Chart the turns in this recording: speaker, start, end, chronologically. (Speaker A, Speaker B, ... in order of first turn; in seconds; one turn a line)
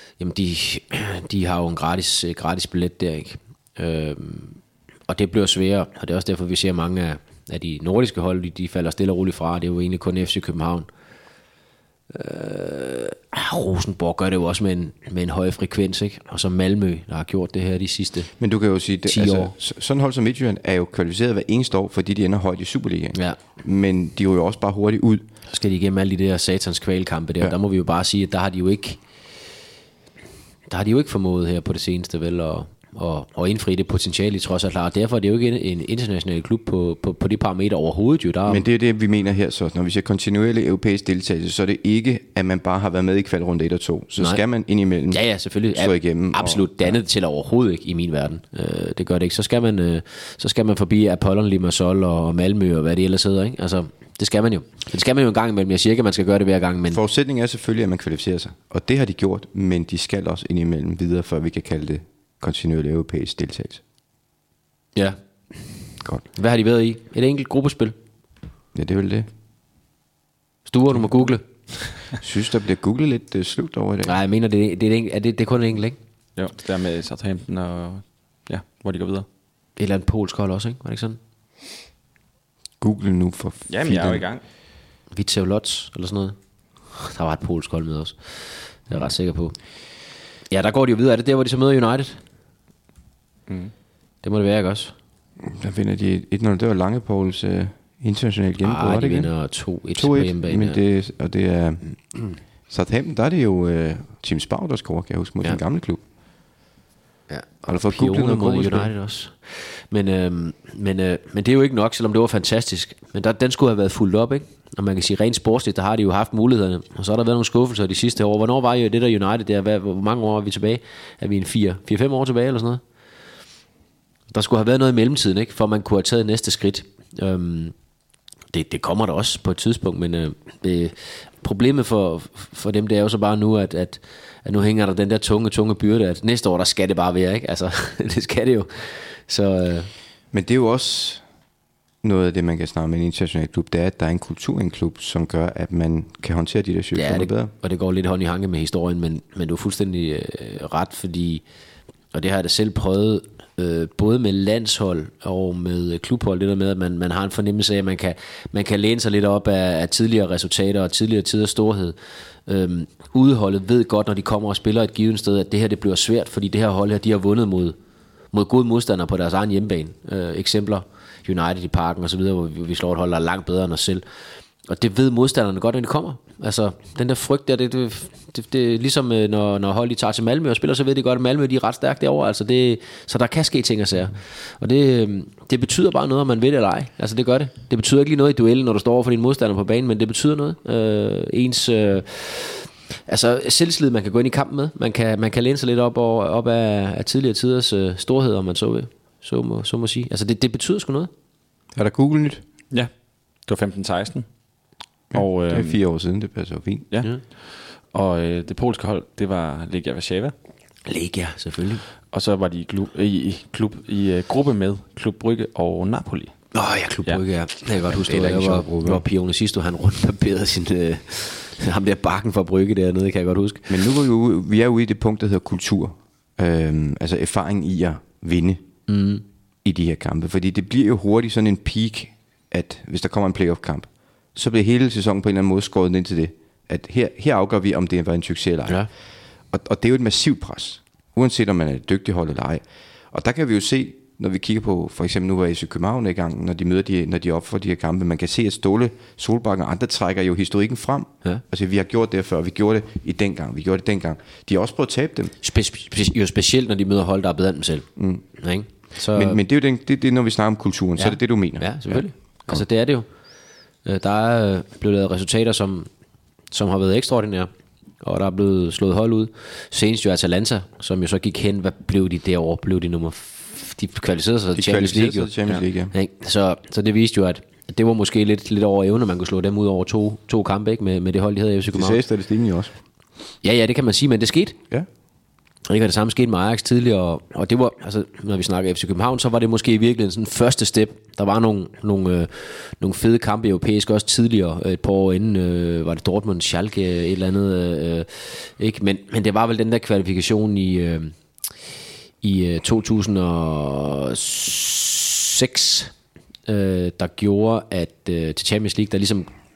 Speaker A: 0.2-10.9
Speaker A: 12.1-18.3
Speaker B: 18.4-25.3
Speaker A: 19.1-19.5
Speaker A: 25.5-29.0
Speaker A: 30.7-38.6
Speaker B: 38.5-47.0
Speaker A: 45.1-57.0
Speaker B: 56.9-63.8
Speaker A: 66.3-68.0
Speaker B: 68.7-69.3
Speaker A: 70.7-71.9
Speaker B: 72.2-74.1
Speaker A: 74.0-76.0
Speaker C: 76.4-79.3
Speaker A: 79.8-81.2
Speaker B: 82.8-84.3
Speaker C: 83.7-84.4
Speaker A: 85.1-86.4
Speaker A: 86.9-89.6
Speaker A: 90.5-92.2
Speaker A: 94.2-94.9
Speaker B: 95.4-99.3
Speaker A: 98.6-100.8
Speaker B: 100.0-106.0
Speaker A: 107.3-122.8
Speaker B: 107.7-108.9
Speaker A: 124.3-127.7
Speaker A: 128.5-139.9
Speaker B: 140.3-141.2
Speaker B: 142.0-147.5
Speaker A: 146.9-151.4
Speaker A: 152.1-162.0
Speaker A: 162.5-167.8
Speaker A: 168.3-174.0
Speaker A: 174.7-201.1
Speaker B: 201.8-202.4
Speaker C: 203.5-204.3
Speaker C: 205.1-205.8
Speaker B: 205.1-206.9
Speaker C: 207.9-210.3
Speaker A: 210.9-211.8
Speaker C: 212.1-216.3
Speaker A: 216.5-223.7
Speaker B: 217.9-219.0
Speaker B: 223.7-228.6
Speaker A: 228.9-229.2
Speaker B: 229.6-238.9
Speaker B: 239.5-255.3
Speaker A: 255.4-259.4
Speaker B: 258.0-258.2
Speaker B: 259.1-262.6
Speaker A: 261.0-263.1
Speaker A: 263.9-265.9
Speaker A: 266.5-267.5
Speaker A: 268.0-275.3
Speaker B: 274.5-275.9
Speaker A: 275.9-282.0
Speaker B: 281.7-282.7
Speaker A: 283.4-284.6
Speaker A: 285.7-301.1
Speaker A: 302.2-305.9
Speaker A: 306.5-309.3